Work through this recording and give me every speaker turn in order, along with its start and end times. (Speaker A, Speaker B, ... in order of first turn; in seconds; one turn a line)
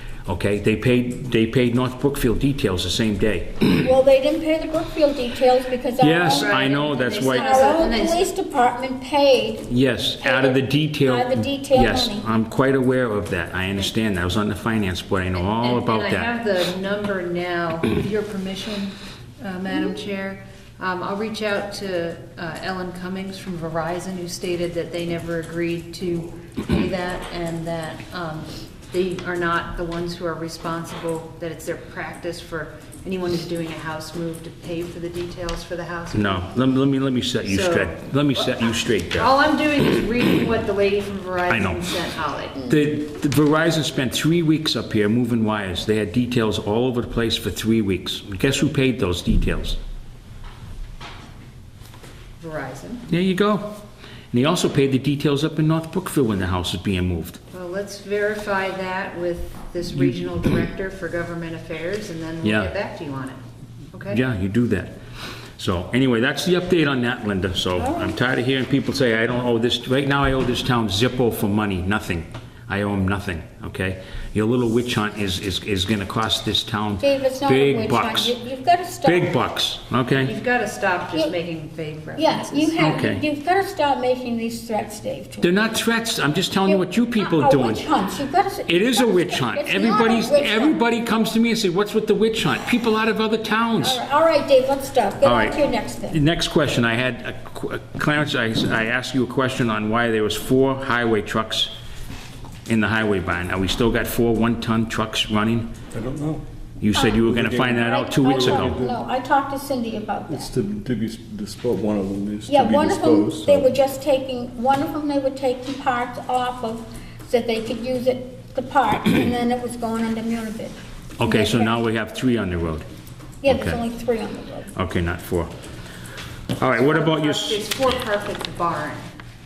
Speaker A: 0.3-3.9
Speaker B: 3.8-6.6
Speaker A: 6.0-7.7
Speaker C: 6.3-8.3
Speaker B: 7.3-9.7
Speaker A: 9.7-16.4
Speaker B: 10.2-12.3
Speaker C: 15.3-36.5
Speaker A: 36.1-39.4
Speaker C: 37.5-38.5
Speaker C: 39.1-42.7
Speaker A: 41.5-41.9
Speaker A: 42.6-49.8
Speaker C: 52.4-53.0
Speaker A: 53.1-53.8
Speaker A: 54.3-57.4
Speaker C: 57.5-63.4
Speaker A: 62.4-62.8
Speaker C: 63.9-64.2
Speaker A: 64.1-64.9
Speaker A: 65.6-78.3
Speaker B: 67.8-68.1
Speaker B: 77.0-79.4
Speaker A: 79.0-80.3
Speaker C: 80.2-82.8
Speaker B: 82.2-85.5
Speaker A: 82.8-83.2
Speaker A: 85.4-87.9
Speaker B: 86.7-90.8
Speaker A: 88.7-94.0
Speaker B: 93.8-96.2
Speaker A: 95.2-101.7
Speaker A: 102.7-105.7
Speaker D: 105.9-106.4
Speaker A: 106.8-108.8
Speaker B: 106.9-110.5
Speaker D: 107.3-109.0
Speaker D: 110.3-113.7
Speaker B: 112.5-121.8
Speaker A: 121.2-122.9
Speaker B: 123.4-124.7
Speaker A: 123.5-123.8
Speaker A: 124.8-125.5
Speaker A: 126.6-127.7
Speaker C: 126.8-129.1